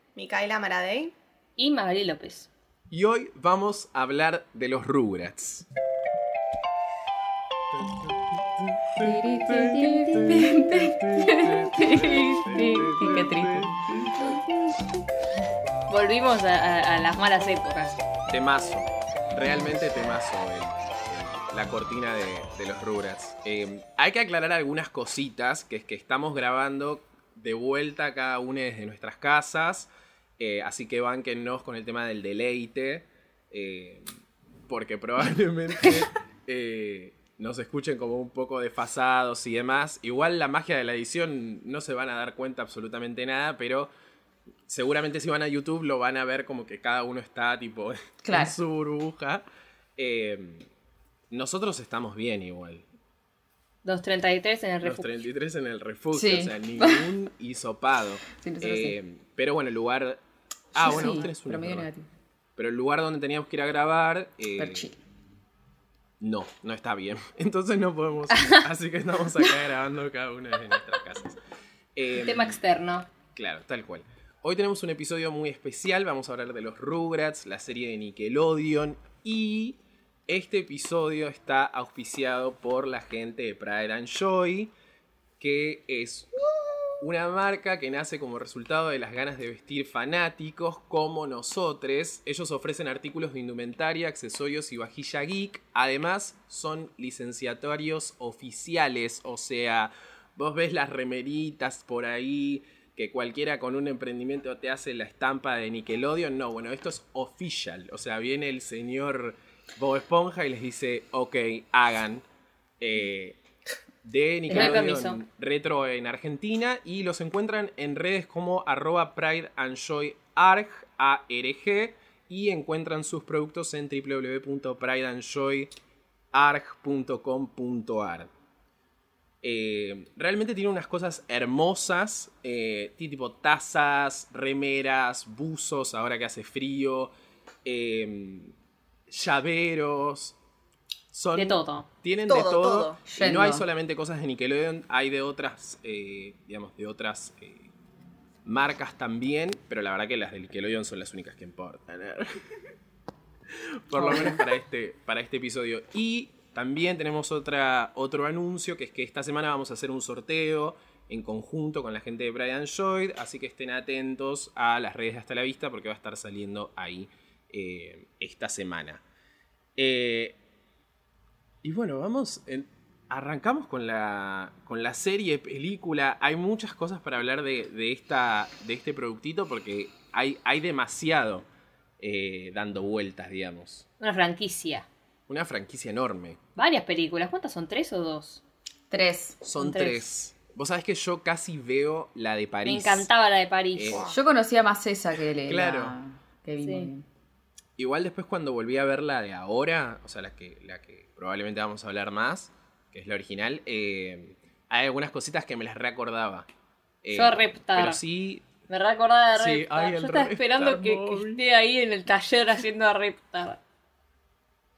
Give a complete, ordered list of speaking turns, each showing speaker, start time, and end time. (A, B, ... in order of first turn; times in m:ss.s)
0:00.2-0:01.1 A
0:01.6-0:02.5 B
0:02.9-0:05.7 C
0:07.7-0:14.3 C
0:09.0-0:13.9 D
0:15.9-0:18.0 B
0:18.3-0:34.1 C
0:34.7-0:43.9 C
0:44.7-0:49.4 C
0:48.2-0:48.6 D
0:50.0-0:50.7 C
0:51.3-0:52.9 C
0:53.8-0:55.1 B
0:54.8-1:00.2 C
0:56.1-0:57.1 D
0:58.3-0:59.0 D
1:00.7-1:01.9 C
1:00.8-1:02.1 D
1:02.6-1:04.9 C
1:04.6-1:05.0 D
1:06.2-1:11.4 C
1:08.3-1:08.6 B
1:12.0-1:12.6 C
1:12.1-1:13.1 B
1:13.3-1:24.7 C
1:25.4-1:26.3 C
1:27.0-1:52.2 C
1:52.8-1:53.4 C
1:54.0-2:05.7 C
1:54.5-1:55.2 B
1:54.5-1:54.9 D
2:06.3-2:08.3 C
2:09.4-2:17.1 C
2:17.6-2:18.5 C
2:19.1-2:20.4 C
2:21.1-2:27.7 C
2:21.4-2:21.9 B
2:22.3-2:23.0 A
2:23.1-2:23.7 D
2:28.4-2:32.3 C
2:33.5-2:49.0 C
2:34.0-2:34.4 D
2:49.8-2:50.4 C
2:51.6-3:01.4 C
3:02.0-3:03.9 C
3:04.0-3:04.9 B
3:05.3-3:06.4 C
3:06.6-3:08.4 B
3:08.9-3:09.4 D
3:09.4-3:13.1 C
3:09.6-3:10.1 B
3:12.6-3:14.1 B
3:13.7-3:14.1 C
3:13.9-3:14.2 A
3:14.1-3:17.0 D
3:15.4-3:16.0 C
3:16.6-3:16.9 B
3:17.8-3:26.5 C
3:27.0-3:28.5 C
3:27.1-3:28.0 B
3:28.7-3:33.6 B
3:29.4-3:31.4 C